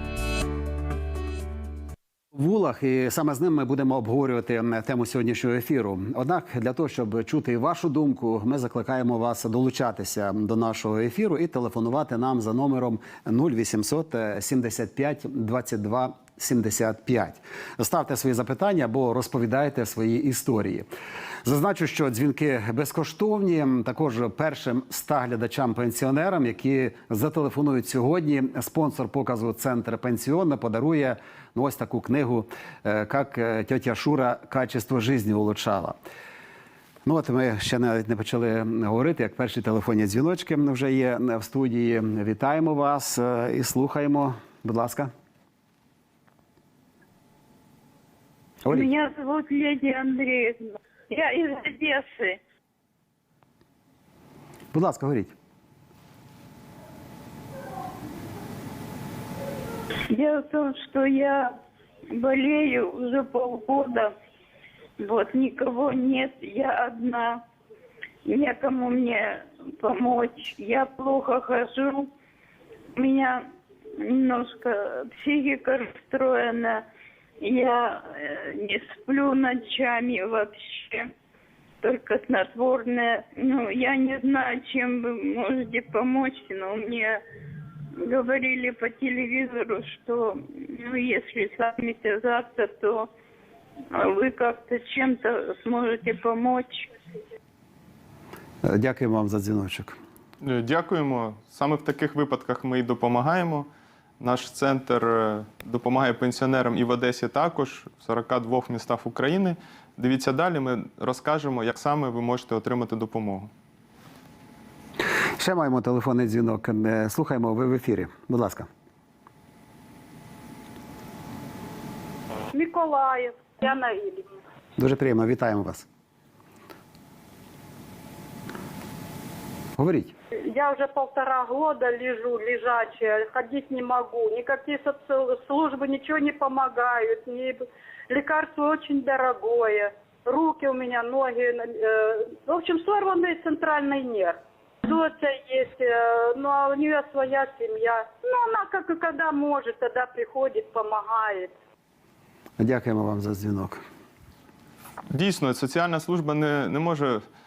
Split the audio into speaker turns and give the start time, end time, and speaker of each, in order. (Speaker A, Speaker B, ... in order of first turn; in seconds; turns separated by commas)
Speaker A: 2.3-20.9, Speaker A: 21.4-36.0, Speaker A: 37.0-45.1, Speaker B: 48.6-52.4, Speaker A: 54.7-55.3, Speaker B: 60.1-61.5, Speaker B: 62.1-64.1, Speaker B: 65.0-67.4, Speaker B: 68.2-72.1, Speaker B: 73.0-73.5, Speaker B: 74.0-76.8, Speaker B: 77.4-81.1, Speaker B: 81.8-87.2, Speaker B: 88.0-93.1, Speaker B: 93.9-96.9, Speaker A: 98.6-100.0, Speaker C: 100.4-103.7, Speaker C: 104.2-113.5, Speaker A: 115.4-118.7, Speaker D: 122.5-124.3, Speaker A: 124.8-125.8, Speaker A: 129.8-130.1, Speaker D: 130.4-151.5, Speaker A: 152.6-153.8, Speaker C: 155.1-157.2